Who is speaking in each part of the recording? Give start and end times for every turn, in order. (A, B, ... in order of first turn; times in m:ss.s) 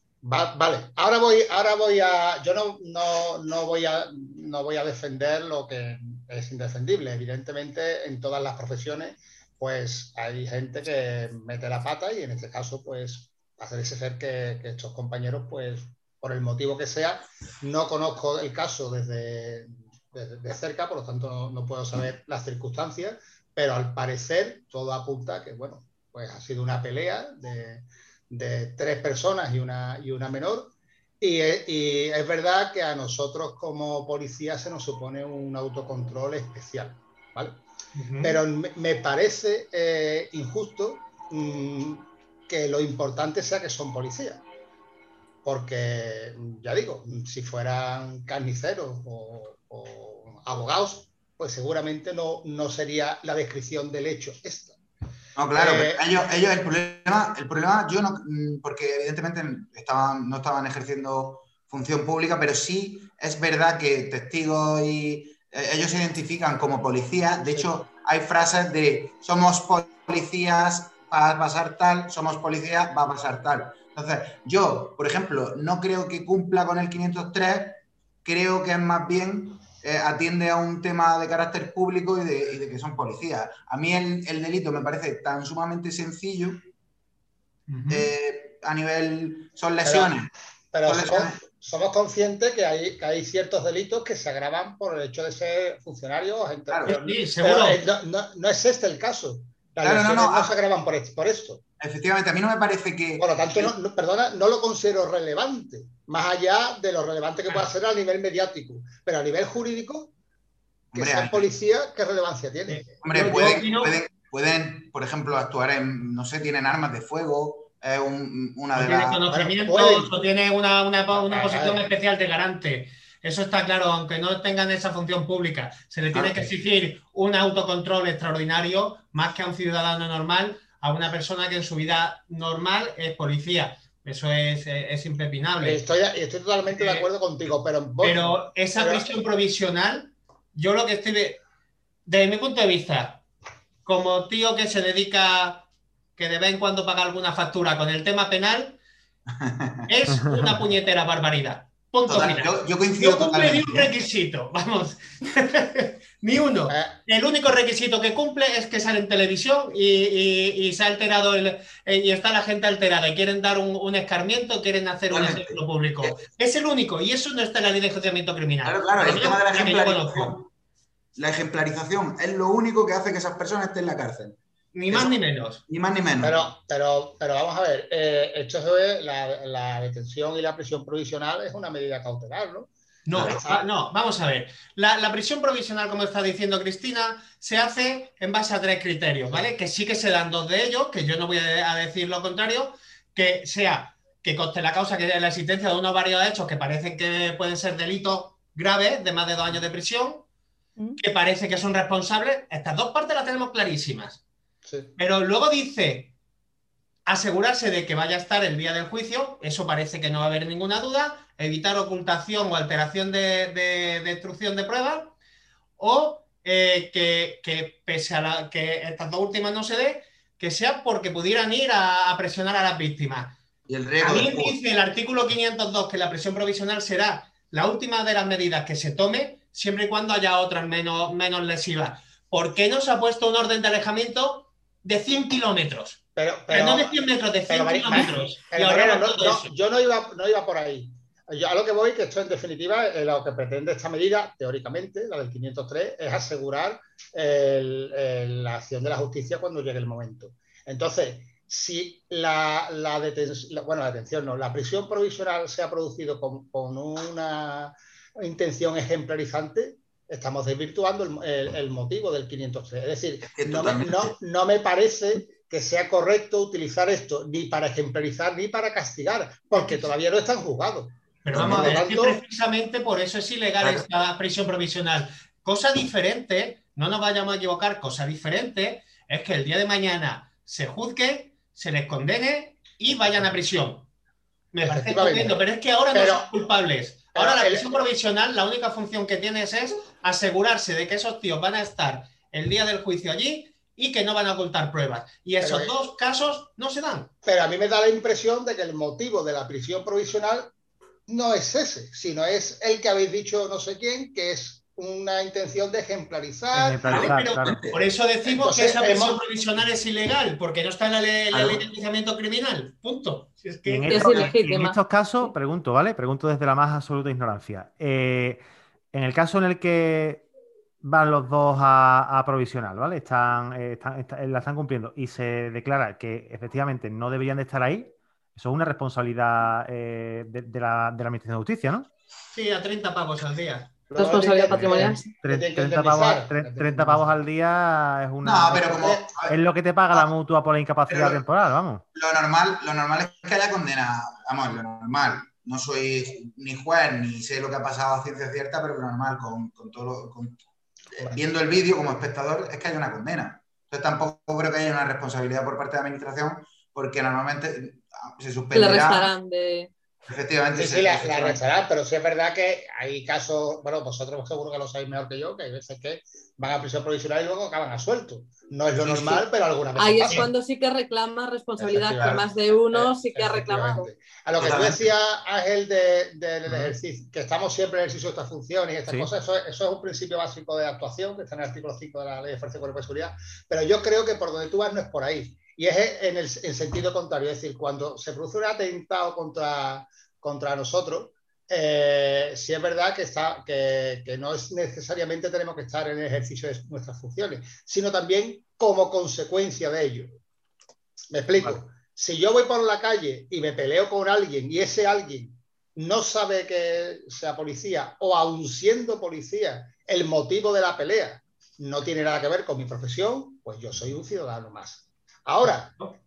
0:00.2-0:37.6 A
0:38.0-0:38.4 B
0:38.2-0:44.4 A
0:45.4-0:54.8 A
0:55.4-1:26.6 C
0:55.5-0:56.1 A
1:07.4-1:07.8 A
1:27.7-1:28.1 B
1:27.9-1:30.3 C
1:29.8-1:30.1 A
1:30.7-1:41.6 A
1:30.8-1:31.4 C
1:36.7-1:37.0 C
1:36.9-1:37.8 B
1:39.8-1:40.5 C
1:41.8-1:43.7 C
1:43.2-1:50.1 A
1:50.9-1:51.5 C
1:50.9-1:52.9 A
1:52.7-1:54.0 B
1:53.0-1:59.2 C
1:58.8-2:15.8 B
1:59.3-2:00.1 A
2:01.1-2:01.8 A
2:06.2-2:06.5 C
2:15.6-2:19.1 A
2:16.7-2:17.0 B
2:18.0-2:21.4 B
2:22.1-2:23.2 B
2:23.9-2:28.8 B
2:29.3-2:29.9 C
2:29.9-2:50.4 B
2:32.1-2:33.9 C
2:36.7-2:37.0 A
2:45.1-2:46.2 C
2:48.6-2:50.5 C
2:51.2-2:54.4 C
2:54.7-2:55.6 B
2:54.9-2:55.2 C
2:55.7-2:56.5 C
2:56.2-3:03.6 A
3:03.1-3:20.2 B
3:03.1-3:03.4 C
3:21.0-3:24.2 B
3:24.6-3:24.9 A
3:25.0-3:26.1 B
3:27.1-3:35.1 B
3:35.8-3:43.4 B
3:43.7-3:44.6 C
3:44.0-3:59.5 B
3:56.2-3:57.0 A
3:57.5-4:32.2 A
4:23.2-4:24.2 C
4:31.2-4:43.9 B
4:31.3-4:31.8 C
4:33.6-4:33.9 C
4:44.5-4:57.1 B
4:44.6-4:45.4 A
4:45.9-4:46.3 A
4:47.1-4:47.8 A
4:55.4-4:55.7 A
4:57.2-5:00.5 A
5:01.1-5:06.8 A
5:06.5-5:07.6 D
5:06.8-5:07.8 C
5:06.9-5:14.3 B
5:08.3-5:09.2 A
5:11.3-5:11.6 C
5:13.7-5:18.4 D
5:13.9-5:14.8 E
5:18.9-5:20.2 D
5:20.8-5:31.9 D
5:32.3-5:33.8 B
5:33.9-5:37.1 A
5:34.0-5:35.1 E
5:35.1-5:41.8 D
5:38.2-5:39.4 C
5:38.7-5:39.0 A
5:40.9-5:41.2 C
5:41.9-5:50.4 C
5:50.9-5:59.1 C
5:58.5-5:59.7 E
6:00.1-6:01.4 C
6:00.5-6:10.3 A
6:08.8-6:09.3 C
6:09.8-6:13.9 E
6:11.6-6:40.2 A
6:11.9-6:12.3 C
6:14.4-6:14.9 C
6:41.1-6:55.8 A